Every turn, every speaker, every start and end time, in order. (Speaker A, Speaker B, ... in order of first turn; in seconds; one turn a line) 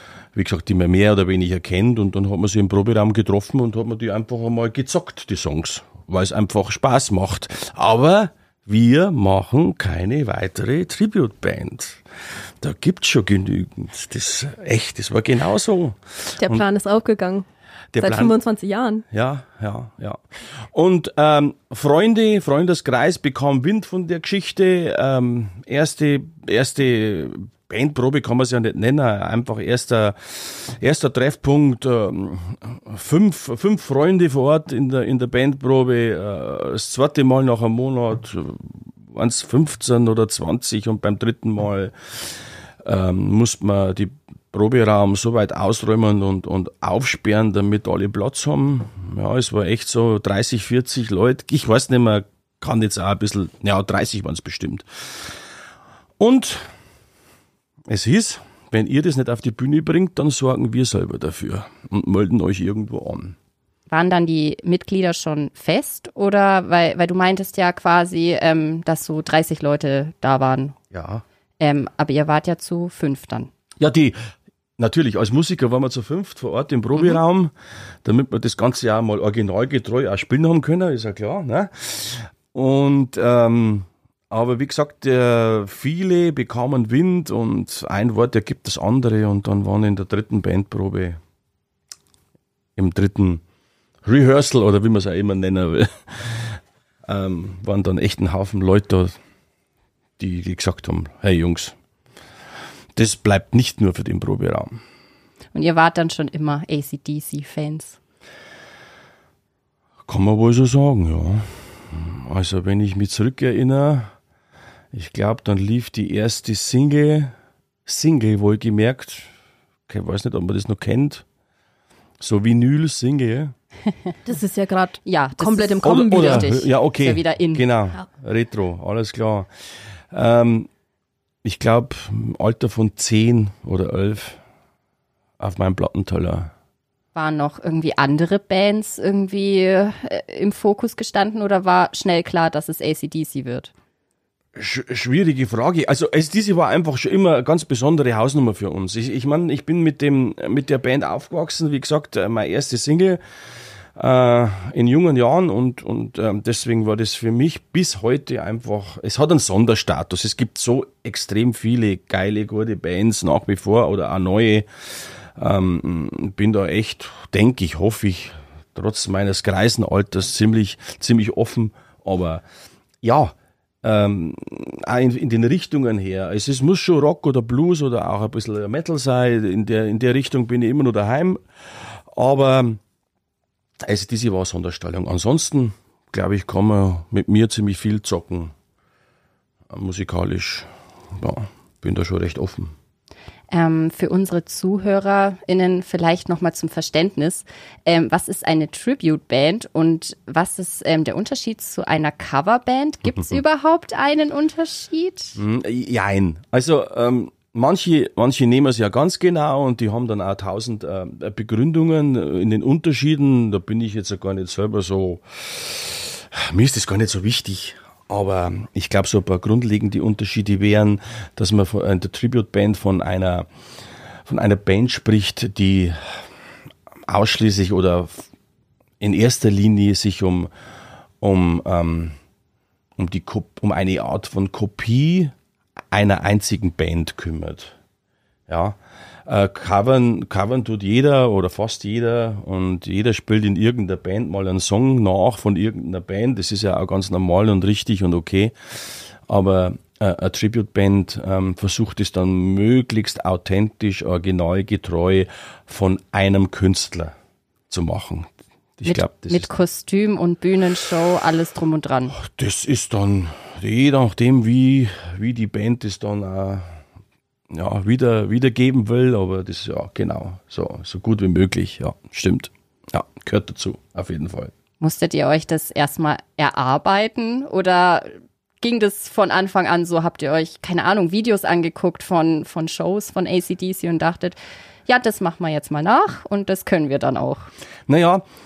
Speaker A: 0.3-12.0
Speaker A: 12.6-16.7
Speaker B: 16.4-17.5
Speaker A: 17.9-18.4
Speaker B: 18.0-19.1
Speaker A: 19.1-55.3
Speaker A: 56.2-56.7
Speaker A: 57.9-63.4
Speaker C: 63.9-70.8
Speaker A: 70.9-71.2
Speaker C: 71.6-73.5
Speaker A: 73.8-74.2
Speaker A: 74.8-77.5
Speaker A: 78.0-91.2
Speaker A: 92.8-93.4
Speaker A: 94.0-99.2
Speaker A: 100.2-101.8
Speaker A: 103.0-104.8
Speaker C: 105.5-108.0
Speaker A: 110.1-114.1
Speaker A: 114.9-117.3
Speaker A: 117.9-119.3
Speaker A: 119.9-121.2
Speaker A: 122.2-123.5
Speaker B: 124.3-126.5
Speaker C: 125.0-127.7
Speaker A: 125.8-129.5
Speaker A: 130.1-130.7
Speaker A: 131.4-134.4
Speaker A: 135.4-136.5
Speaker C: 137.2-143.7
Speaker A: 144.6-153.2
Speaker A: 154.0-164.7
Speaker A: 165.4-172.4
Speaker A: 173.0-182.8
Speaker A: 183.8-188.5
Speaker A: 189.7-192.7
Speaker C: 193.5-205.4
Speaker A: 205.4-223.5
Speaker A: 224.3-226.3
Speaker A: 227.1-228.3
Speaker A: 229.0-230.5
Speaker A: 231.2-232.2
Speaker A: 233.0-235.3
Speaker A: 235.9-237.8
Speaker A: 238.5-257.1
Speaker A: 257.7-259.5
Speaker C: 258.9-262.1
Speaker A: 262.1-266.8
Speaker A: 267.5-274.5
Speaker C: 274.8-287.4
Speaker A: 287.9-288.2